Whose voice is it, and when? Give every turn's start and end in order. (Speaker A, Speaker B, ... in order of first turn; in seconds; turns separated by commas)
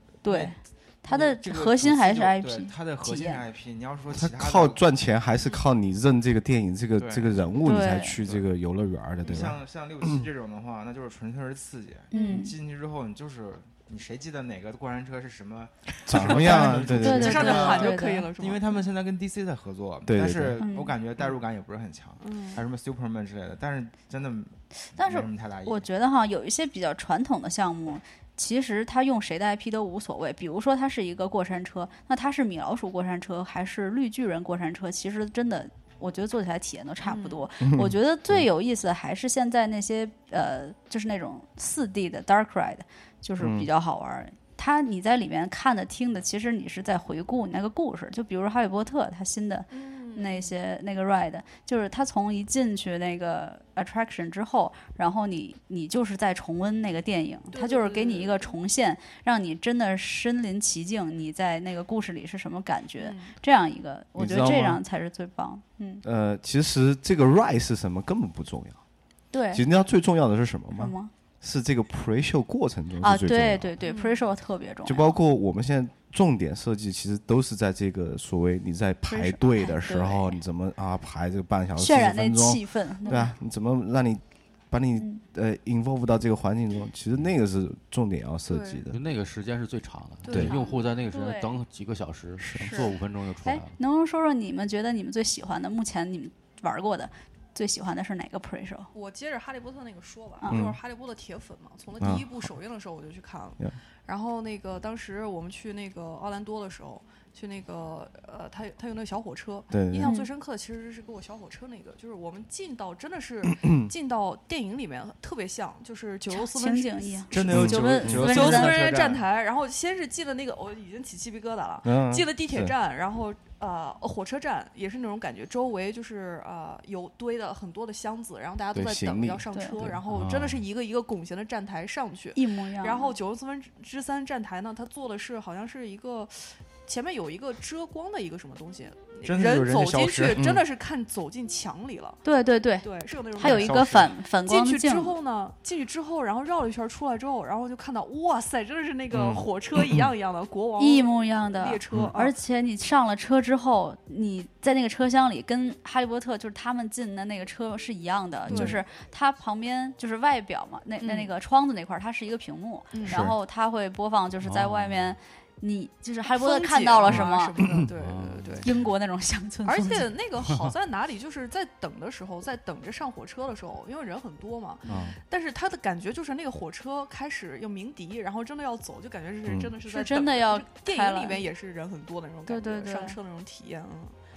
Speaker A: 0.2-3.4, Speaker B: 0.2-4.8, Speaker C: 4.2-10.2, Speaker B: 7.0-8.5, Speaker A: 7.6-8.2, Speaker B: 9.2-25.9, Speaker A: 12.1-12.5, Speaker D: 12.1-12.4, Speaker C: 16.1-17.7, Speaker D: 16.2-18.9, Speaker A: 16.9-18.3, Speaker C: 20.1-20.6, Speaker A: 20.6-20.9, Speaker D: 22.2-22.6, Speaker A: 24.9-66.0, Speaker D: 37.0-37.5, Speaker C: 37.6-38.5, Speaker C: 43.4-43.7, Speaker D: 49.7-50.5, Speaker D: 57.5-58.5, Speaker D: 63.0-63.4, Speaker C: 64.2-64.8, Speaker C: 66.0-68.8, Speaker A: 69.3-69.6, Speaker C: 69.5-73.8, Speaker A: 70.8-71.1, Speaker A: 73.0-75.1, Speaker D: 73.8-74.2, Speaker C: 74.8-89.0, Speaker A: 79.1-80.4, Speaker A: 81.8-83.3, Speaker D: 83.1-83.3, Speaker A: 85.0-85.2, Speaker D: 88.5-88.8, Speaker E: 88.9-93.8, Speaker D: 90.2-90.9, Speaker C: 90.3-90.5, Speaker A: 90.5-91.6, Speaker C: 92.4-92.8, Speaker A: 92.5-98.9, Speaker D: 98.9-117.6, Speaker C: 100.5-100.8, Speaker C: 102.0-102.5, Speaker C: 109.7-110.1, Speaker A: 110.0-110.3, Speaker C: 113.4-113.9, Speaker A: 116.3-118.8, Speaker B: 117.3-119.2, Speaker C: 117.5-118.4, Speaker D: 118.2-142.2, Speaker C: 121.8-122.8, Speaker C: 128.7-130.0, Speaker A: 129.5-129.8, Speaker E: 130.1-130.6, Speaker A: 132.3-133.2, Speaker B: 139.2-140.5, Speaker A: 142.2-145.2, Speaker D: 142.8-152.4, Speaker B: 143.4-144.2, Speaker C: 149.2-150.1, Speaker A: 150.8-167.6, Speaker D: 158.5-158.8, Speaker D: 161.0-161.3, Speaker D: 162.9-163.2, Speaker C: 163.1-163.3, Speaker E: 164.4-165.1, Speaker D: 166.3-168.7, Speaker E: 167.9-168.8, Speaker A: 168.6-170.1, Speaker D: 169.7-184.2, Speaker E: 170.4-170.7, Speaker E: 174.9-175.2, Speaker C: 179.5-179.8, Speaker A: 179.9-181.5, Speaker A: 182.5-183.2